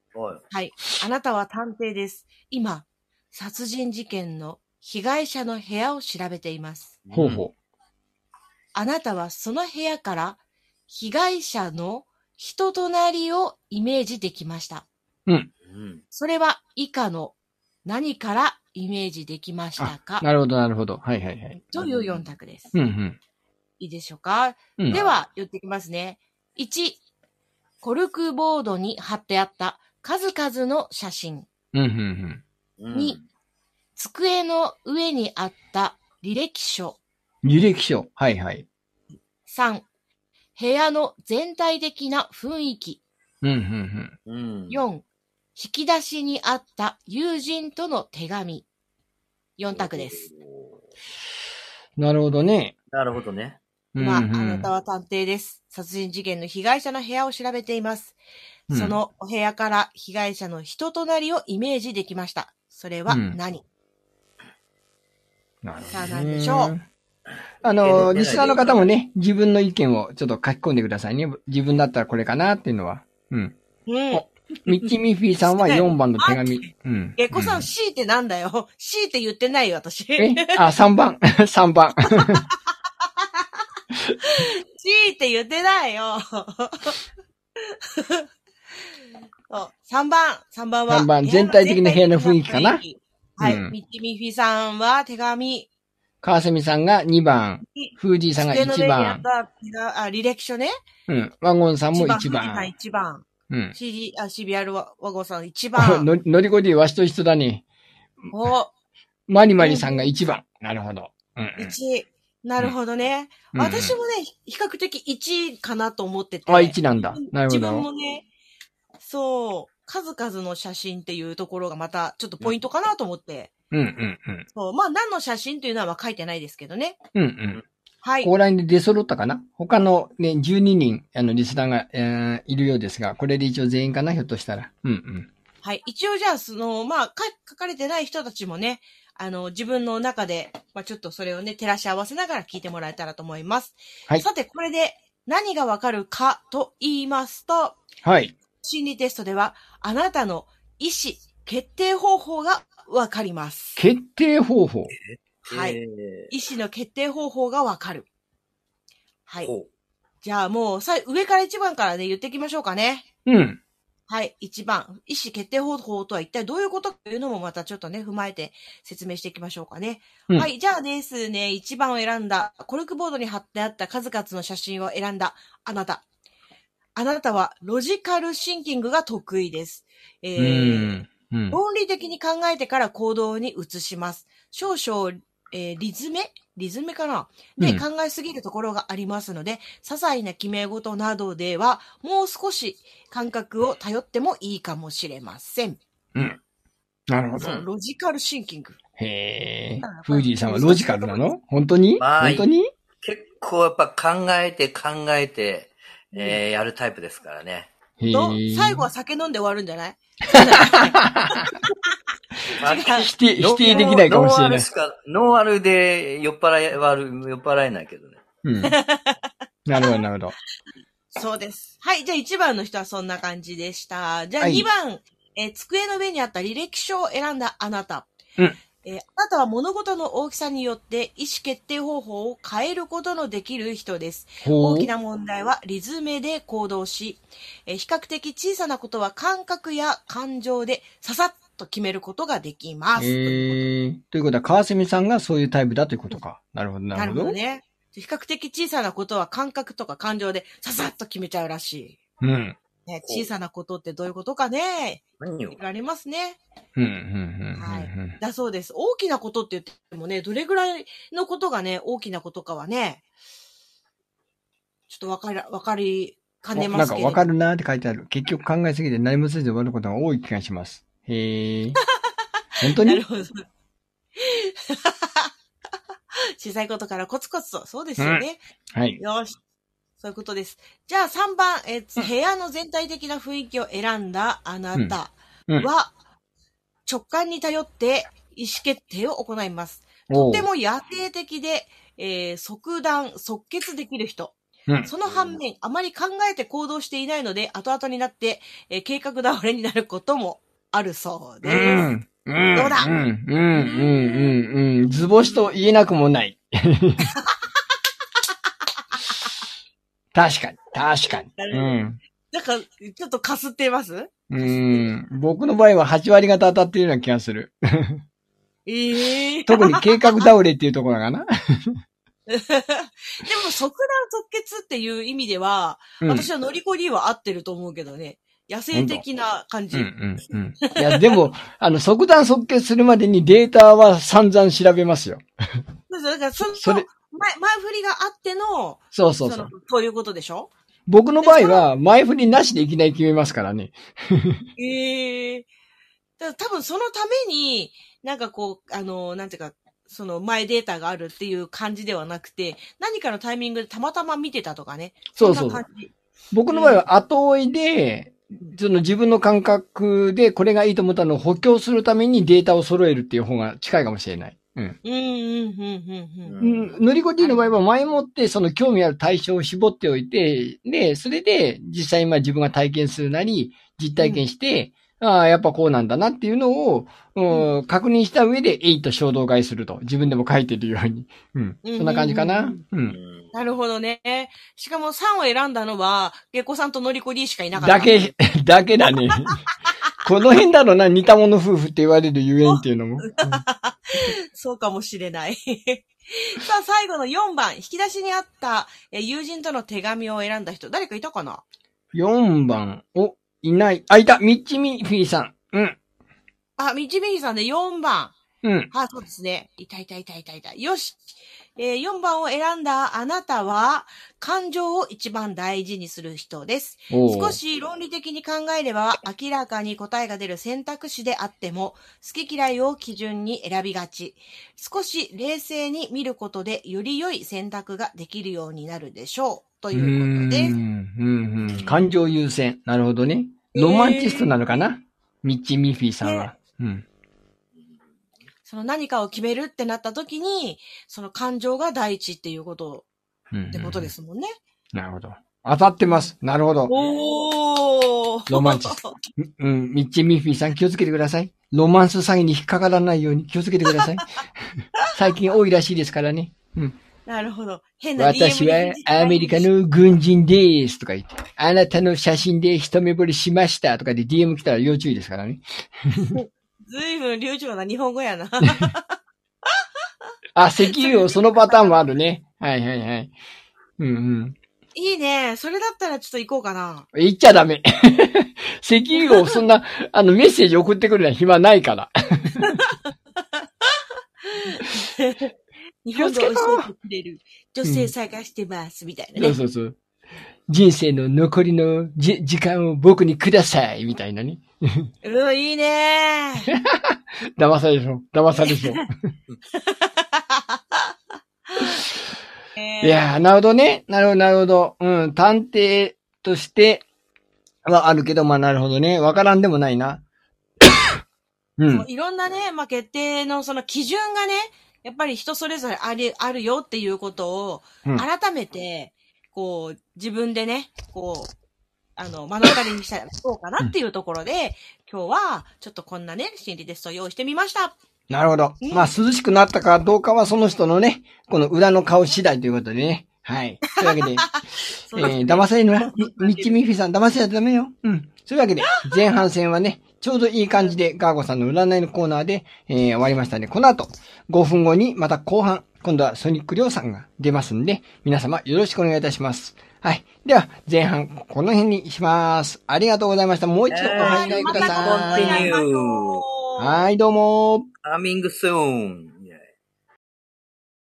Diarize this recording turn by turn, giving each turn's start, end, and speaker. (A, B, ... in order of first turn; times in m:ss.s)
0:00.1-0:00.4 A
0:00.5-0:07.0 B
0:07.0-0:07.4 A
0:07.1-0:07.5 C
0:08.7-0:14.8 B
0:15.6-0:16.0 A
0:16.1-0:20.3 B
0:19.8-0:21.6 C
0:21.6-0:22.8 B
0:21.8-0:22.2 A
0:22.7-0:23.2 C
0:23.8-0:27.0 B
0:24.8-0:25.1 C
0:27.8-0:31.5 B
0:31.7-0:32.4 C
0:32.8-0:33.2 A
0:34.0-0:37.0 B
0:37.4-0:38.7 C
0:39.5-0:39.8 B
0:40.6-0:43.0 B
0:43.4-0:44.1 C
0:44.3-0:44.8 A
0:44.7-0:45.0 B
0:45.6-0:48.7 B
0:49.6-0:50.2 B
0:49.7-0:50.8 A
0:52.0-0:52.8 C
0:52.9-0:53.6 A
0:54.0-0:54.7 C
0:54.0-0:58.2 B
0:58.7-0:59.0 C
0:58.7-1:03.6 B
1:03.1-1:03.4 C
1:05.6-1:06.8 C
1:05.9-1:06.7 B
1:07.6-1:13.6 C
1:07.8-1:08.9 A
1:13.9-1:14.2 B
1:14.1-1:17.7 C
1:15.4-1:20.6 B
1:20.2-1:22.5 C
1:22.1-1:22.4 B
1:23.0-1:23.5 B
1:24.2-1:27.0 B
1:27.6-1:28.3 B
1:29.5-1:35.7 B
1:30.9-1:32.8 C
1:33.4-1:33.7 C
1:36.2-1:39.2 C
1:37.7-1:40.8 B
1:41.1-1:42.7 C
1:41.9-1:46.1 B
1:43.5-1:43.8 C
1:45.8-1:47.6 C
1:48.3-1:48.7 B
1:49.3-1:51.7 C
1:49.6-1:50.1 B
1:51.6-1:58.3 B
1:53.5-1:54.0 C
1:56.5-1:57.9 C
1:59.0-2:03.5 B
2:03.7-2:04.5 C
2:04.5-2:07.0 B
2:07.2-2:07.6 C
2:08.0-2:08.3 B
2:08.2-2:15.3 C
2:15.6-2:27.8 B
2:28.0-2:28.3 C
2:28.6-2:33.8 B
2:33.8-2:34.9 C
2:35.0-2:36.3 A
2:35.5-2:35.8 B
2:36.3-2:38.1 B
2:40.2-2:43.0 B
2:43.3-2:43.6 C
2:44.1-2:56.0 B
2:57.0-3:15.8 B
3:00.4-3:01.6 C
3:07.6-3:07.8 C
3:17.1-3:17.6 C
3:17.4-3:18.8 B
3:17.4-3:17.6 A
3:19.0-3:22.7 C
3:19.8-3:21.3 B
3:22.0-3:22.5 A
3:23.0-3:27.7 A
3:26.1-3:26.4 B
3:28.0-3:28.9 C
3:28.1-3:31.5 B
3:30.3-3:31.5 C
3:32.5-3:33.1 B
3:32.6-3:38.2 A
3:32.9-3:34.7 C
3:33.6-3:34.0 B
3:38.4-3:38.8 C
3:38.6-3:39.2 B
3:39.7-3:40.3 C
3:39.8-3:40.0 B
3:41.1-3:48.1 B
3:44.4-3:44.7 C
3:48.8-4:03.7 B
3:54.4-3:54.9 C
4:03.0-4:07.4 C
4:06.9-4:12.0 B
4:12.2-4:12.6 C
4:12.9-4:16.4 B
4:15.2-4:15.6 A
4:16.8-4:18.2 C
4:17.5-4:23.0 B
4:24.9-4:27.2 B
4:26.6-4:31.8 C
4:32.6-4:33.0 C
4:32.8-4:33.4 B
4:34.2-4:35.3 B
4:36.4-4:38.4 B
4:38.0-4:38.2 C
4:39.0-4:39.4 B
4:40.0-4:45.9 B
4:46.9-5:01.9 B
4:50.1-4:50.5 C
4:55.1-4:55.3 A
5:01.4-5:07.1 C
5:02.5-5:03.0 B
5:03.5-5:04.4 B
5:10.1-5:12.0 C
5:11.4-5:11.8 B
5:12.3-5:14.9 B
5:14.3-5:18.0 C
5:18.7-5:20.3 B
5:19.5-5:21.8 C
5:22.3-5:29.9 B
5:26.0-5:26.3 C
5:28.7-5:29.0 C
5:29.7-5:35.2 C
5:30.6-5:31.2 B
5:35.9-5:40.5 B
5:36.4-5:36.9 C
5:38.9-5:39.5 C
5:40.9-5:44.5 C
5:41.2-5:41.7 B
5:44.6-5:45.5 B
5:46.2-5:55.9 B
5:55.2-5:55.6 C
5:56.3-6:04.8 C
5:56.5-5:56.8 B
6:04.8-6:06.4 B
6:06.2-6:06.8 A
6:06.4-6:23.0 C
6:07.2-6:07.6 B
6:14.0-6:14.2 B
6:21.6-6:22.6 B
6:22.9-6:23.3 A
6:23.3-6:28.1 B
6:27.6-6:29.4 C
6:28.9-6:29.4 B
6:30.0-6:33.4 C
6:32.4-6:41.4 B
6:41.9-6:45.8 C
6:46.6-6:48.2 B
6:48.4-6:48.7 C
6:48.7-7:10.6 B
6:56.9-6:57.4 C
7:09.7-7:16.8 C
7:11.4-7:11.9 A
7:13.5-7:14.3 B
7:16.0-7:16.3 B
7:18.5-7:22.9 B
7:23.3-7:23.9 C
7:23.5-7:24.4 B
7:24.7-7:26.8 C
7:26.7-7:29.0 B
7:28.3-7:34.1 C
7:34.8-7:36.8 C
7:37.1-7:39.5 B
7:38.0-7:46.2 C
7:46.0-7:49.0 B
7:50.4-7:53.1 C
7:50.6-7:51.9 B
7:53.8-7:54.4 C
7:54.8-7:56.9 B
7:56.9-8:02.5 C
7:59.0-7:59.3 B
8:02.4-8:02.8 B
8:03.3-8:05.3 B
8:05.8-8:09.4 B
8:06.0-8:06.7 C
8:07.6-8:07.9 C
8:09.2-8:09.8 C
8:10.5-8:14.9 C
8:15.0-8:16.5 B
8:16.5-8:18.9 C
8:18.4-8:18.8 B
8:19.6-8:20.9 B
8:21.5-8:21.8 B
8:22.6-8:23.0 B
8:22.8-8:26.8 C
8:27.6-8:30.0 C
8:31.6-8:31.9 C
8:31.7-8:41.3 B
8:42.0-8:47.8 B
8:48.1-8:54.4 C
8:48.6-8:48.9 B
8:53.7-8:56.5 B
8:54.9-9:15.5 C
8:58.7-8:59.0 B
9:13.7-9:16.2 A
9:13.9-9:16.9 B
9:16.6-9:17.7 C
9:17.8-9:19.4 A